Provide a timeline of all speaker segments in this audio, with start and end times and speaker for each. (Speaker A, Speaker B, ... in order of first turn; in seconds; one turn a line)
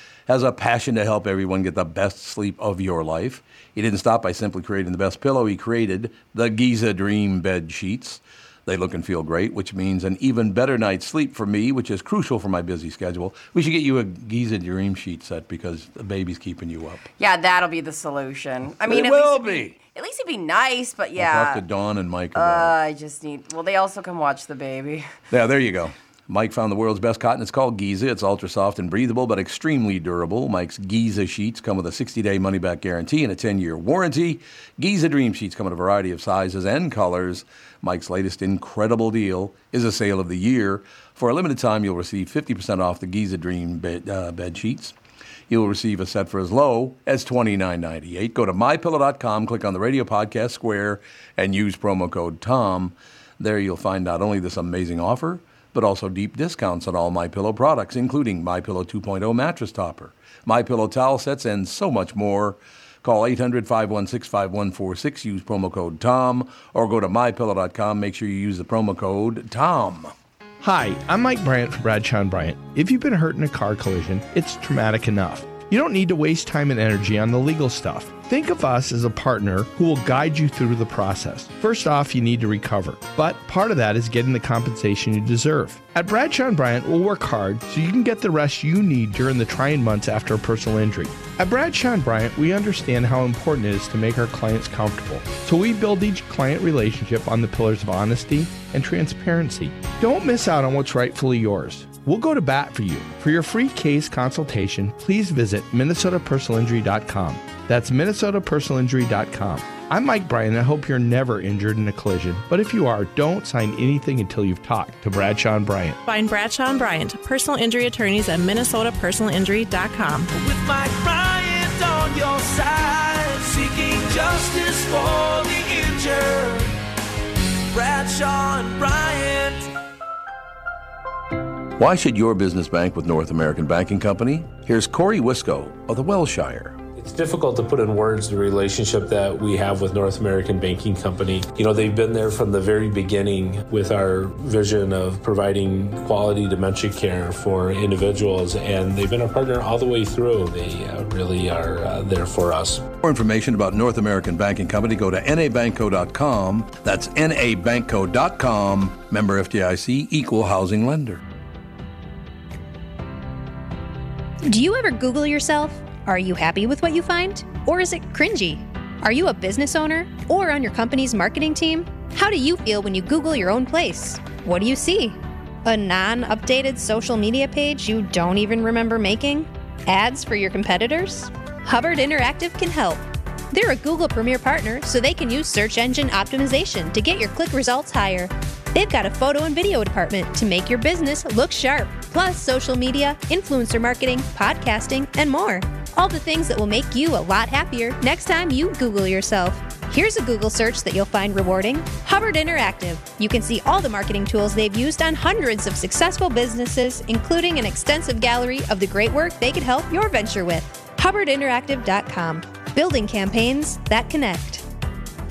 Speaker A: 0.3-17.1
Speaker B: 17.2-21.6
Speaker A: 18.8-19.8
Speaker A: 21.1-22.8
Speaker B: 22.3-25.1
Speaker A: 25.3-44.9
Speaker A: 45.5-70.1
Speaker C: 70.6-116.0
Speaker D: 116.0-120.3
Speaker E: 120.3-126.7
Speaker E: 127.7-129.7
Speaker A: 131.8-136.8
Speaker F: 136.9-152.9
Speaker A: 153.0-161.2
Speaker G: 164.4-214.6